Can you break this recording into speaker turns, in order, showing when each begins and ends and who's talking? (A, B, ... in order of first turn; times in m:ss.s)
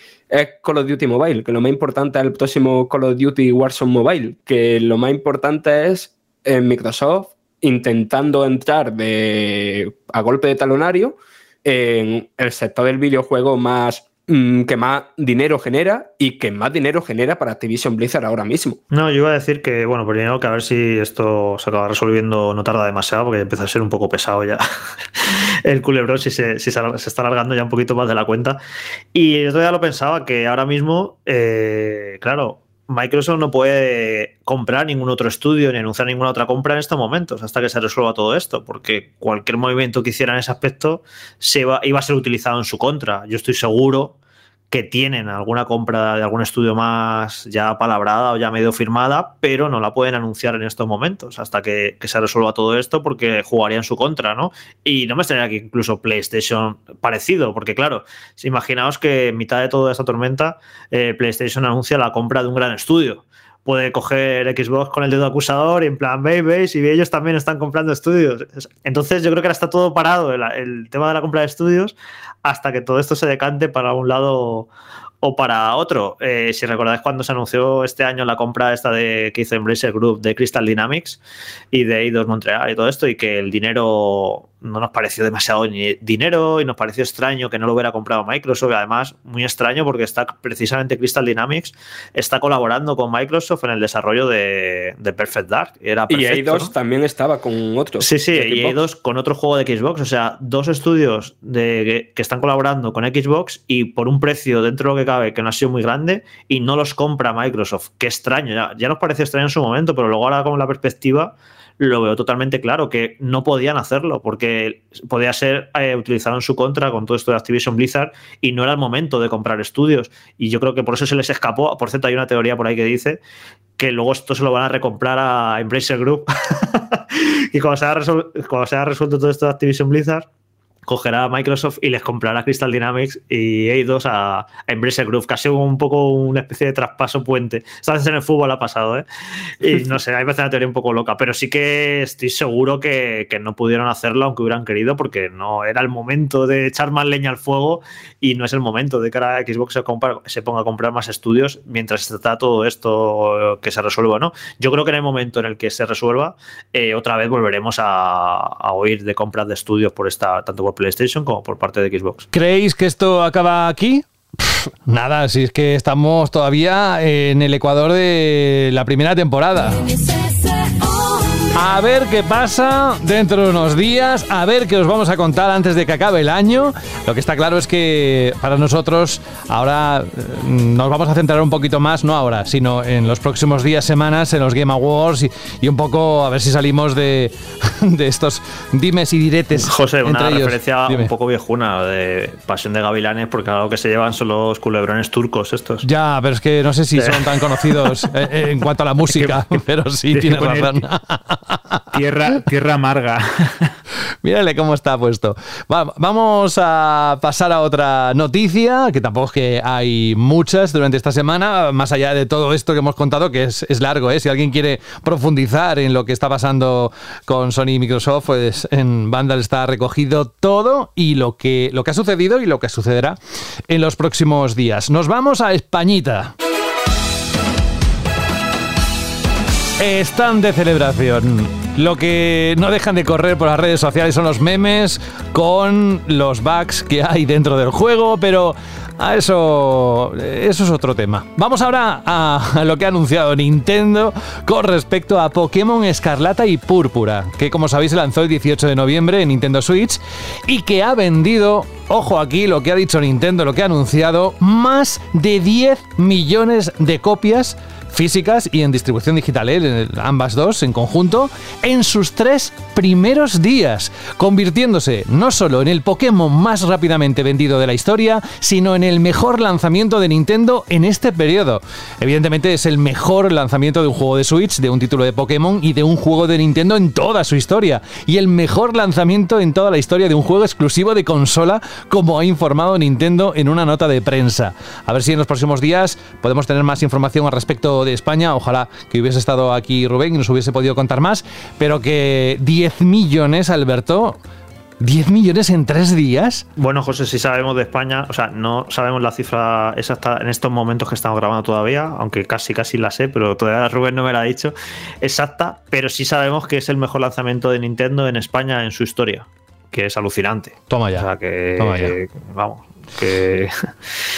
0:00.3-0:18.8 A
0:18.9-0:24.6 B
0:25.2-0:28.6 B
0:29.1-0:44.2 B
0:44.7-1:14.7 B
1:15.2-1:21.2 B
1:21.7-1:36.7 B
1:36.1-1:38.8 A
1:38.0-2:03.2 B
2:03.8-2:10.3 B
2:10.9-2:19.1 B
2:19.6-2:42.3 B
2:42.3-2:49.9 C
2:51.5-3:11.1 C
3:09.6-3:15.8 B
3:15.8-3:21.9 C
3:17.0-3:17.8 B
3:20.2-3:20.8 D
3:21.9-3:23.8 D
3:24.2-3:46.3 C
3:49.8-4:54.2 C
4:54.8-4:56.4 C
4:56.6-5:13.7 B
5:10.7-5:12.0 C